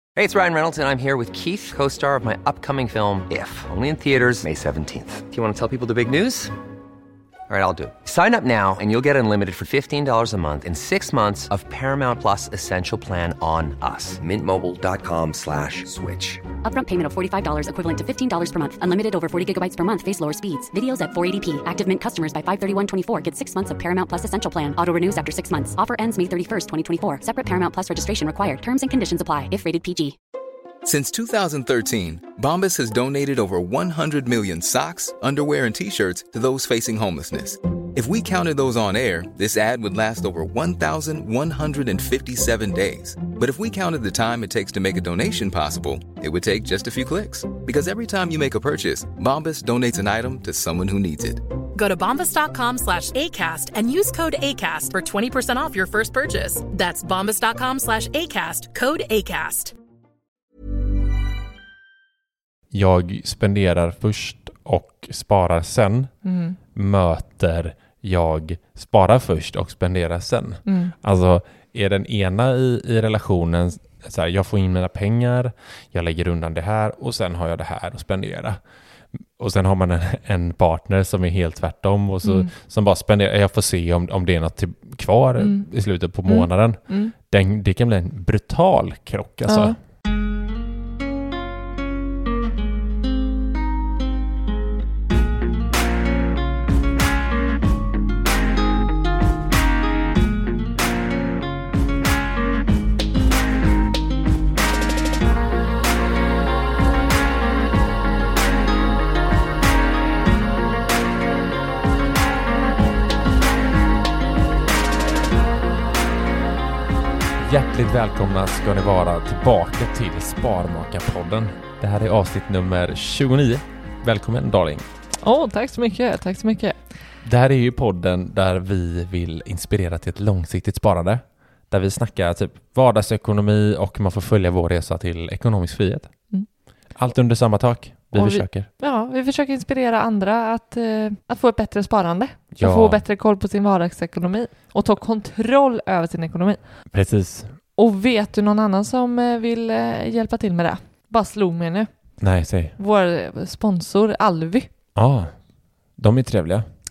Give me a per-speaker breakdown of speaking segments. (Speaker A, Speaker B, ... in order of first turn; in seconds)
Speaker A: 0.1-6.5, 7.5-16.4
Speaker B: 16.6-30.1
Speaker C: 30.8-51.4
Speaker D: 51.7-59.7
Speaker E: 62.7-66.1, 66.7-78.6, 79.1-89.8, 117.4-124.9, 127.2-138.7, 142.5-143.0, 146.9-147.6, 152.2-152.8, 154.9-155.4, 155.9-156.7
Speaker F: 66.2-66.6, 70.7-70.9, 82.2-82.5, 85.4-87.1, 89.5-89.8, 125.2-126.9, 138.1-146.9, 147.8-152.2, 152.8-154.7